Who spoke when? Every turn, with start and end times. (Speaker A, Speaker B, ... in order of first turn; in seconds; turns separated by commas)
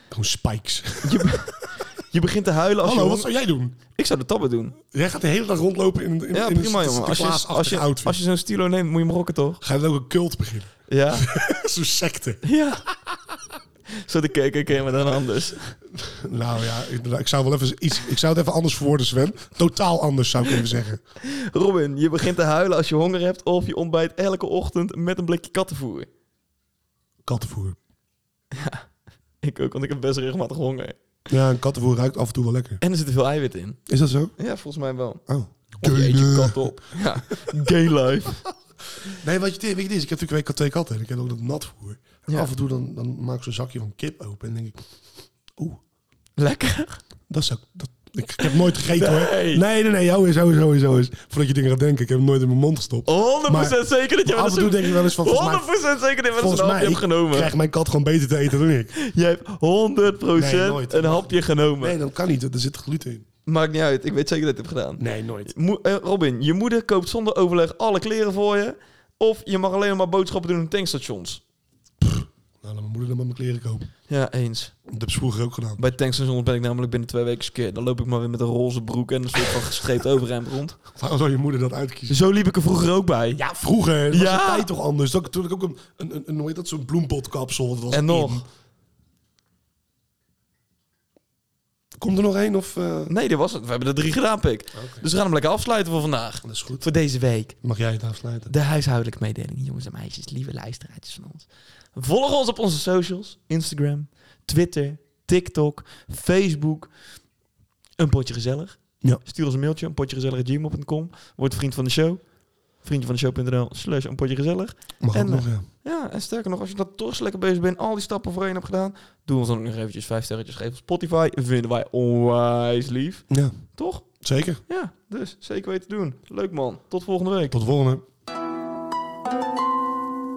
Speaker A: 0.1-1.7, Speaker B: 1.0-3.3, Speaker A: 2.8-3.8, Speaker B: 3.9-4.8, Speaker A: 4.9-8.2, Speaker B: 6.3-9.6, Speaker A: 9.6-12.4, Speaker B: 10.9-11.3, Speaker B: 12.4-12.8, Speaker B: 14.0-15.8, Speaker A: 15.9-21.0, Speaker B: 21.2-26.1, Speaker A: 27.2-27.8, Speaker B: 28.5-28.9, Speaker B: 29.4-31.0, Speaker A: 31.3-32.8, Speaker B: 32.8-33.8, Speaker A: 33.9-34.3, Speaker B: 34.4-35.2, Speaker A: 35.3-37.5, Speaker B: 35.8-38.5, Speaker A: 39.0-44.8, Speaker A: 45.5-45.8, Speaker B: 46.4-47.0, Speaker A: 47.3-55.7, Speaker B: 48.5-49.6, Speaker B: 53.1-57.5, Speaker A: 56.3-59.0, Speaker B: 58.9-62.0, Speaker A: 60.3-63.2, Speaker B: 63.5-71.4, Speaker A: 65.0-65.5, Speaker A: 72.0-73.9, Speaker B: 74.1-74.7, Speaker A: 74.9-75.9, Speaker B: 75.8-80.8, Speaker A: 80.9-82.2, Speaker B: 82.1-83.4, Speaker A: 83.4-88.5, Speaker B: 84.1-84.7, Speaker B: 87.9-88.4, Speaker A: 92.0-93.1, Speaker B: 93.1-97.6, Speaker A: 94.7-95.0, Speaker A: 96.4-96.9, Speaker A: 97.6-98.5, Speaker B: 98.5-106.9, Speaker B: 108.0-112.2, Speaker B: 112.8-124.1, Speaker A: 115.0-115.7, Speaker A: 123.3-123.6, Speaker A: 124.2-124.6, Speaker B: 124.7-127.6, Speaker A: 127.5-128.0